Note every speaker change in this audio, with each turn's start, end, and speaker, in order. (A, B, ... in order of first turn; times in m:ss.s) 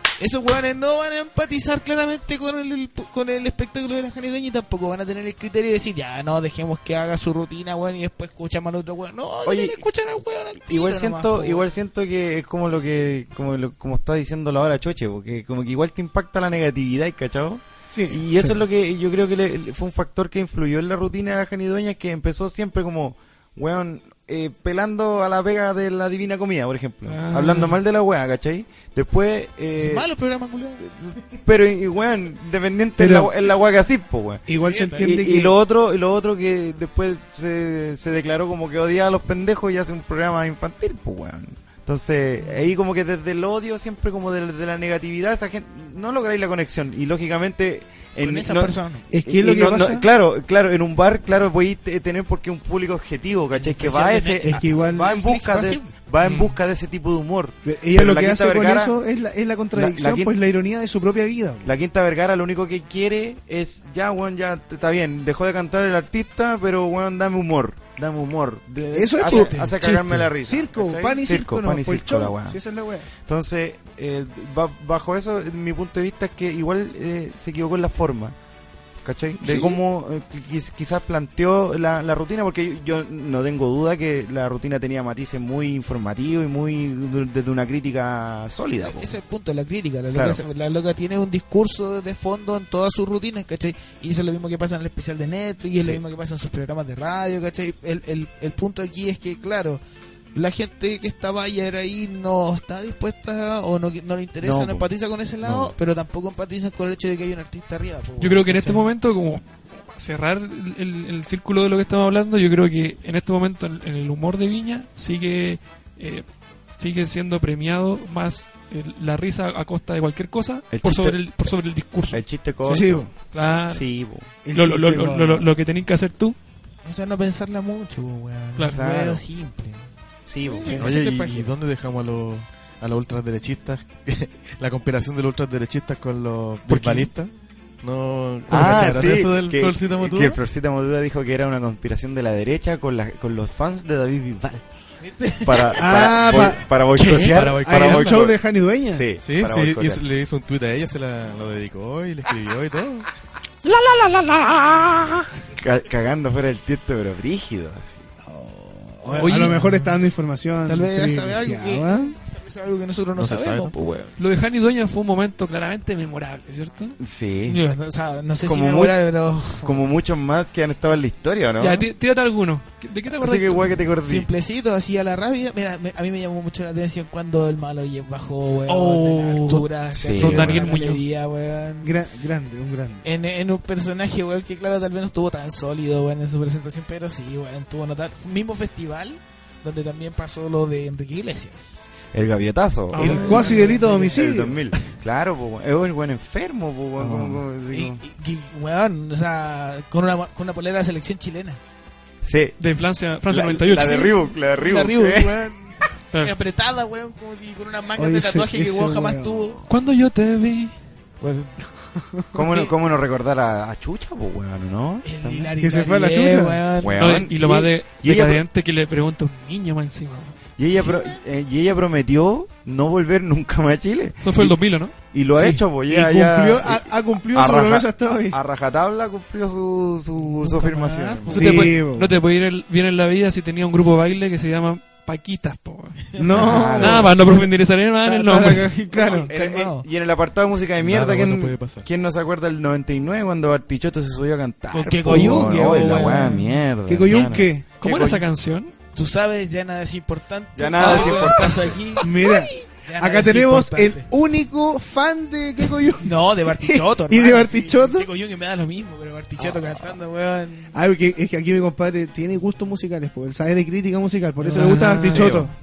0:00.2-0:11.7 A
0:09.5-0:09.8 B
0:10.7-0:30.1 B
0:17.9-0:18.6 C
0:27.1-0:27.8 D
0:29.8-0:31.2 A
0:31.2-0:59.0 B
0:33.0-0:33.3 C
0:34.5-0:35.6 C
0:34.6-0:35.2 A
0:48.2-0:49.1 A
0:49.1-0:50.0 C
0:53.6-0:55.9 A
0:54.4-0:55.1 C
0:56.2-0:56.5 D
0:57.7-1:01.7 C
0:59.7-1:00.4 B
1:01.6-1:12.6 B
1:08.9-1:09.7 C
1:09.2-1:10.3 A
1:10.4-1:13.1 C
1:13.2-1:18.4 B
1:19.0-1:29.2 B
1:19.4-1:19.8 D
1:28.8-1:39.8 A
1:30.1-1:30.4 B
1:40.3-1:48.9 A
1:44.4-1:44.9 B
1:45.4-1:45.7 B
1:48.2-1:56.2 D
1:56.8-2:03.8 D
2:00.7-2:01.6 B
2:02.1-2:04.3 B
2:02.7-2:03.1 C
2:04.4-2:05.5 C
2:04.5-2:06.4 D
2:06.8-2:09.9 A
2:08.8-2:09.2 B
2:10.3-2:10.9 B
2:10.5-2:11.5 A
2:10.7-2:20.4 E
2:16.7-2:17.1 D
2:18.5-2:24.7 B
2:25.0-2:26.2 A
2:25.4-2:30.0 B
2:25.8-2:26.6 C
2:27.0-2:27.4 D
2:27.2-2:28.3 E
2:27.4-2:29.1 C
2:29.2-2:33.1 E
2:33.7-2:35.3 D
2:35.6-2:38.0 B
2:38.3-2:42.2 C
2:39.0-2:39.9 A
2:39.2-2:39.6 D
2:40.7-2:44.2 A
2:43.2-2:43.7 E
2:44.2-2:47.0 D
2:47.0-2:47.6 B
2:47.5-2:49.8 A
2:48.4-2:49.0 B
2:49.6-2:51.9 B
2:51.6-2:53.8 D
2:53.1-2:54.3 B
2:54.0-3:01.9 A
2:58.7-3:01.1 D
2:59.9-3:00.7 B
3:01.8-3:03.0 C
3:03.0-3:11.9 A
3:12.1-3:18.0 B
3:12.9-3:13.9 D
3:13.0-3:14.6 C
3:13.0-3:14.2 A
3:17.0-3:17.4 C
3:17.7-3:21.6 A
3:22.2-3:22.6 B
3:22.6-3:24.2 D
3:23.3-3:25.5 B
3:23.8-3:29.7 A
3:28.0-3:29.6 C
3:29.7-3:30.8 D
3:31.2-3:31.6 A
3:32.3-3:35.5 B
3:35.0-3:37.0 A
3:35.6-3:36.6 C
3:36.8-3:38.4 B
3:37.0-3:40.4 D
3:40.6-3:51.7 B
3:44.2-3:45.6 D
3:45.8-3:48.4 C
3:50.2-3:51.8 A
3:51.3-3:58.8 D
3:51.3-3:52.2 C
3:56.2-3:57.5 C
3:56.3-3:57.1 B
3:58.0-3:59.3 C
3:59.0-4:08.3 B
3:59.0-3:59.9 A
4:00.8-4:01.9 E
4:04.7-4:06.6 A
4:06.0-4:06.3 C
4:06.9-4:07.7 C
4:07.8-4:08.7 D
4:09.0-4:12.1 A
4:10.6-4:11.8 B
4:10.8-4:11.4 D
4:12.0-4:12.6 D
4:12.0-4:18.1 C
4:12.8-4:14.1 A
4:16.0-4:20.8 A
4:19.4-4:19.8 C
4:20.7-4:25.5 C
4:24.4-4:25.4 D
4:24.6-4:25.5 B